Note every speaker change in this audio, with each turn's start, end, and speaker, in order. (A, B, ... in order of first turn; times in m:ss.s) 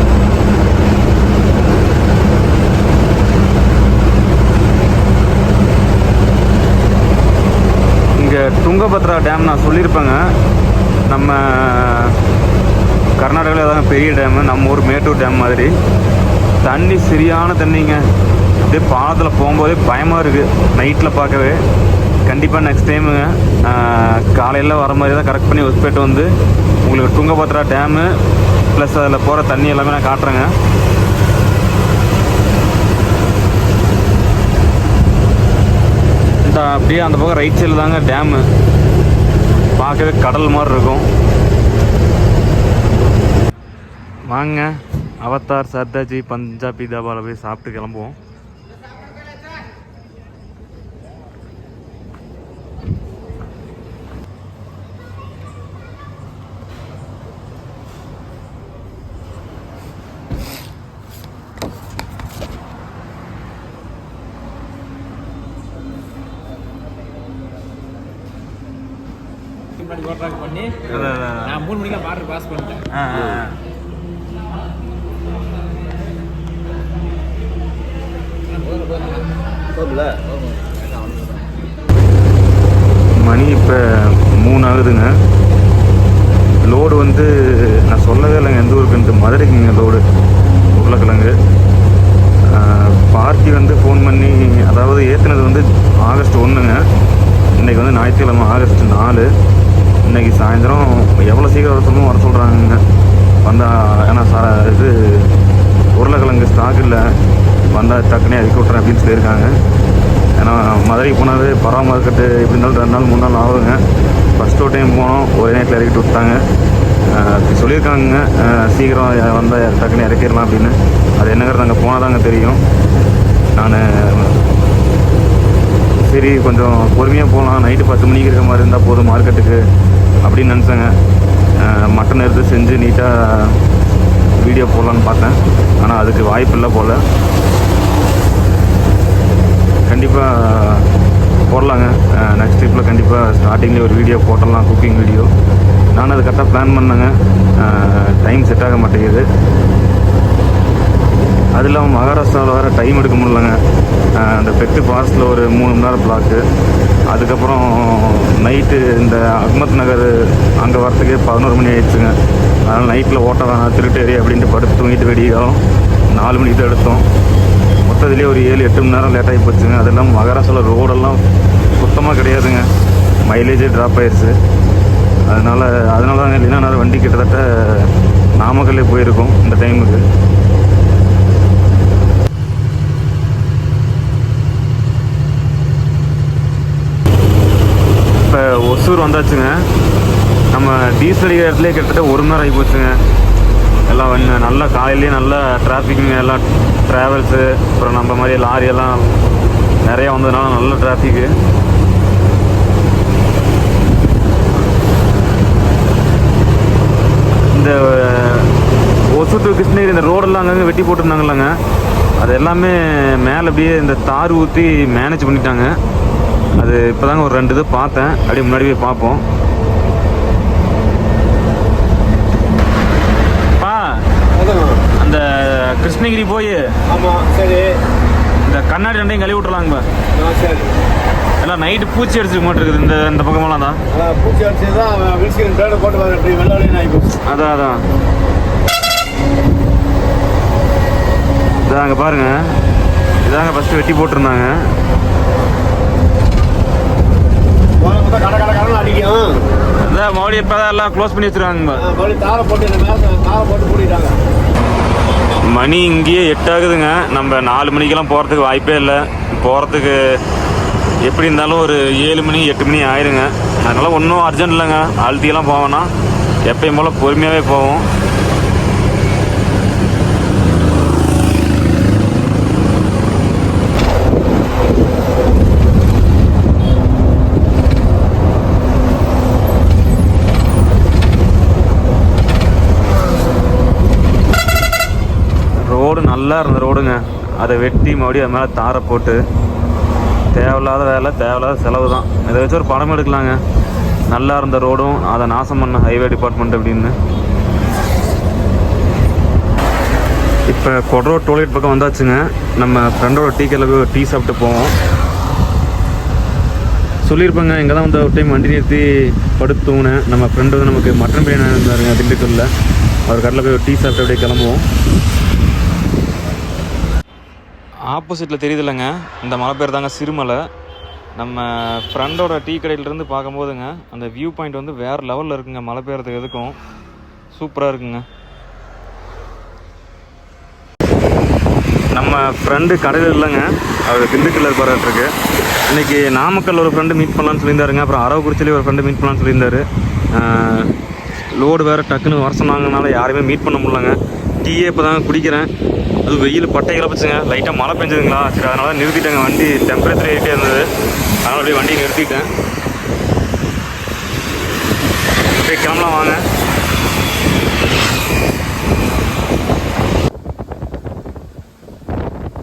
0:08.2-0:10.3 A
0:11.1-0:12.2 A
0:13.2-0:15.7 A
0:16.6-0:18.0 A
0:18.6-0:21.6 A
0:22.3-0:26.3 A
0:26.8-0:28.2 A
0:28.7-0:30.5 A
0:36.4-0:38.5 A
0:39.8-0:41.1 A
0:44.3-0:48.2 A
1:09.8-1:12.9 B
1:10.9-1:11.6 A
1:12.9-1:13.6 A
1:18.5-1:19.3 B
1:19.7-1:20.3 C
1:20.3-1:21.4 B
1:23.2-1:25.1 A
1:26.7-1:30.0 A
1:30.7-1:31.4 A
1:32.5-1:36.8 A
1:37.6-1:39.3 A
1:40.0-1:42.8 A
1:43.4-1:45.2 A
1:46.0-1:47.1 A
1:47.7-1:49.6 A
1:50.4-1:53.8 A
1:54.4-1:56.4 A
1:57.1-2:02.6 A
2:03.6-2:04.4 A
2:06.0-2:09.6 A
2:10.2-2:10.9 A
2:11.6-2:13.6 A
2:14.4-2:17.0 A
2:19.9-2:20.9 A
2:21.5-2:25.3 A
2:25.9-2:29.3 A
2:31.6-2:33.6 A
2:34.2-2:36.4 A
2:37.1-2:42.2 A
2:42.7-2:47.0 A
2:47.8-2:51.2 A
2:51.8-2:52.7 A
2:53.3-2:54.4 A
2:55.2-3:00.0 A
3:08.2-3:09.6 A
3:10.5-3:13.0 A
3:13.9-3:19.1 A
3:19.8-3:21.3 A
3:27.5-3:28.5 A
3:29.1-3:31.6 A
3:32.2-3:35.8 A
3:36.6-3:39.2 A
3:43.6-3:44.0 A
3:44.4-3:44.9 C
3:45.0-3:46.7 A
3:46.9-3:47.7 C
3:48.4-3:49.9 A
3:50.2-3:50.7 C
3:51.4-3:53.8 A
3:53.9-3:57.2 C
3:57.3-3:57.8 A
4:01.6-4:02.4 A
4:03.2-4:04.5 A
4:07.8-4:09.3 C
4:09.8-4:11.8 A
4:11.8-4:14.2 C
4:15.5-4:20.0 A
4:21.0-4:25.9 A
4:26.5-4:27.9 A
4:45.6-4:49.2 A
4:50.3-4:53.4 A
4:54.1-4:57.0 A
5:00.5-5:04.7 A
5:07.0-5:12.5 A
5:13.1-5:14.7 A
5:17.9-5:20.4 A
5:21.2-5:26.6 A
5:27.3-5:28.1 A
5:31.9-5:35.1 A
5:35.7-5:40.7 A
5:41.4-5:45.5 A
5:46.1-5:50.7 A
5:51.2-5:52.3 A
5:55.4-5:56.2 A